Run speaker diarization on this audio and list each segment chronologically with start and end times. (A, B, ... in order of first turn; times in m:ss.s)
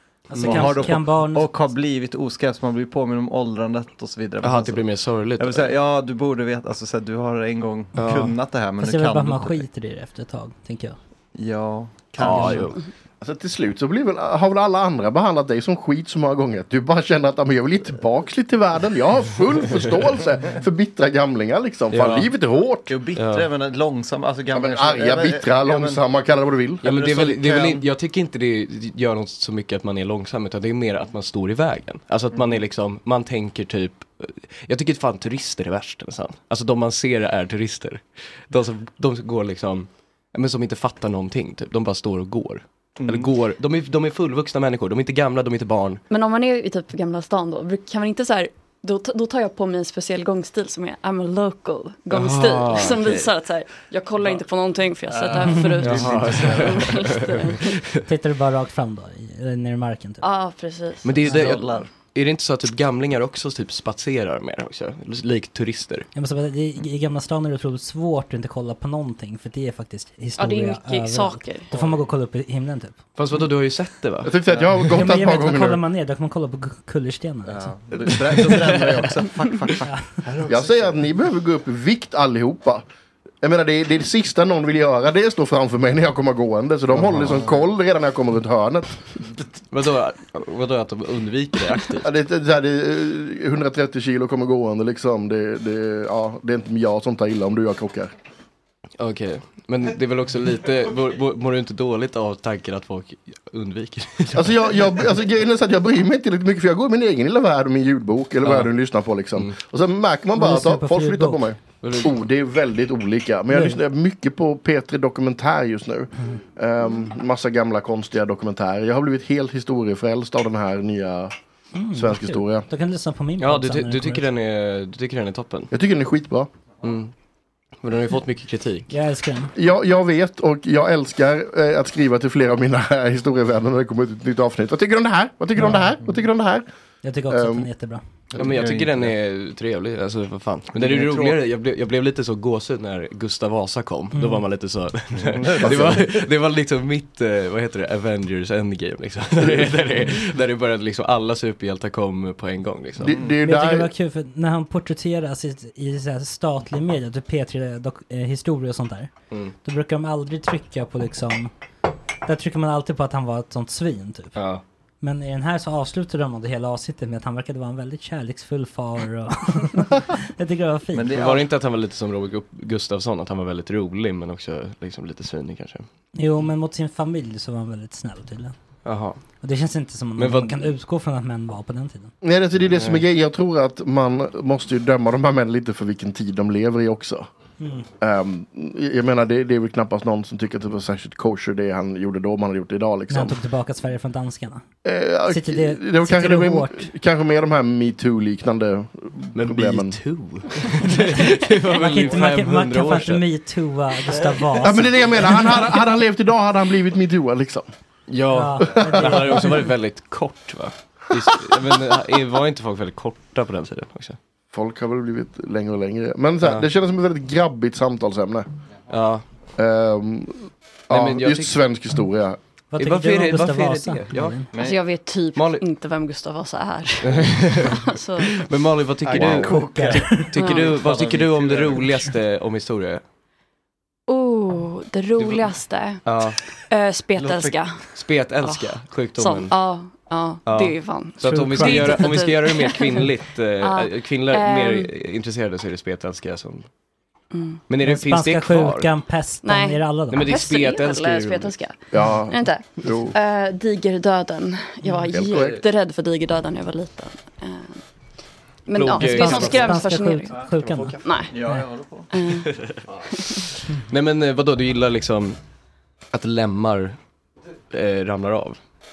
0:00.3-0:01.5 A
0:00.3-0:09.6 B
0:00.4-0:01.0 C
0:04.4-0:05.7 C
0:08.0-0:08.4 C
0:08.8-0:11.0 A
0:11.4-0:12.8 B
0:12.2-0:12.8 C
0:13.2-0:22.9 D
0:21.9-0:22.3 C
0:22.9-0:26.0 B
0:23.2-0:23.5 C
0:24.5-0:26.8 D
0:26.8-0:46.0 C
0:26.8-0:27.8 B
0:43.0-0:43.3 B
0:46.1-0:57.7 E
0:52.1-0:53.3 C
0:55.1-0:56.9 B
0:55.8-0:58.1 C
0:58.1-1:00.2 A
1:00.2-1:01.8 E
1:01.0-1:06.1 C
1:01.2-1:01.9 B
1:06.2-1:13.0 A
1:10.4-1:11.7 E
1:13.2-1:15.0 C
1:14.2-1:15.8 D
1:14.9-1:17.7 A
1:17.5-1:20.9 B
1:18.1-1:19.1 C
1:20.5-1:22.8 D
1:23.4-1:29.0 D
1:26.9-1:27.7 B
1:29.7-1:32.1 C
1:32.0-1:38.1 D
1:39.0-1:45.0 C
1:44.3-2:01.4 D
1:48.4-1:48.7 C
1:50.4-1:51.4 A
1:51.8-1:52.2 C
1:53.5-1:53.8 A
2:01.8-2:04.3 A
2:01.9-2:02.7 D
2:03.4-2:05.7 C
2:05.7-2:06.5 D
2:06.8-2:07.1 C
2:07.8-2:08.9 C
2:08.9-2:09.5 A
2:09.6-2:16.7 D
2:15.6-2:15.8 A
2:17.0-2:18.0 A
2:17.3-2:17.7 D
2:18.3-2:19.2 B
2:18.4-2:33.2 C
2:20.8-2:21.4 B
2:24.1-2:24.4 A
2:25.2-2:26.2 B
2:25.6-2:26.1 D
2:29.4-2:29.7 D
2:33.0-2:33.9 D
2:33.1-2:33.4 B
2:33.4-2:39.1 A
2:39.6-2:41.5 A
2:42.2-2:44.4 A
2:44.4-2:44.6 C
2:45.0-2:51.1 A
2:50.9-2:51.5 B
2:51.1-2:55.9 C
2:56.2-2:58.6 A
2:58.8-2:59.2 C
2:59.4-3:02.1 A
3:00.2-3:00.7 C
3:02.2-3:07.3 D
3:02.7-3:03.0 C
3:07.6-3:07.9 A
3:08.0-3:13.4 D
3:13.1-3:14.6 A
3:14.8-3:20.0 D
3:15.3-3:16.9 A
3:19.3-3:23.3 C
3:21.7-3:25.6 A
3:24.6-3:27.7 D
3:28.1-3:34.2 C
3:28.3-3:29.6 A
3:28.7-3:29.3 D
3:34.5-3:38.5 D
3:38.9-3:39.2 C
3:39.6-3:42.4 D
3:40.9-3:41.6 C
3:42.7-3:44.5 A
3:42.8-3:44.5 C
3:44.5-3:44.8 B
3:44.6-3:48.3 E
3:45.4-3:45.6 C
3:47.0-3:53.0 C
3:49.1-3:52.1 B
3:49.1-3:49.6 D
3:49.4-3:50.3 A
3:50.3-3:50.8 E
3:54.1-3:57.9 E
3:55.2-3:55.5 C
3:56.0-3:56.4 C
3:57.2-3:57.6 B
3:57.9-3:59.5 C
3:58.4-4:04.9 E
4:00.5-4:06.7 C
4:01.2-4:02.1 A
4:07.3-4:07.6 E
4:07.7-4:08.9 C
4:07.8-4:10.3 A
4:09.4-4:17.8 E
4:10.1-4:11.6 C
4:11.9-4:13.2 D
4:15.1-4:15.6 D
4:18.7-4:20.5 E
4:18.7-4:19.8 C
4:19.0-4:21.0 A
4:21.0-4:21.4 E
4:21.3-4:22.1 B
4:22.1-4:22.6 E
4:23.1-4:23.4 E
4:23.8-4:25.4 C
4:26.1-4:27.0 C
4:27.7-4:28.6 C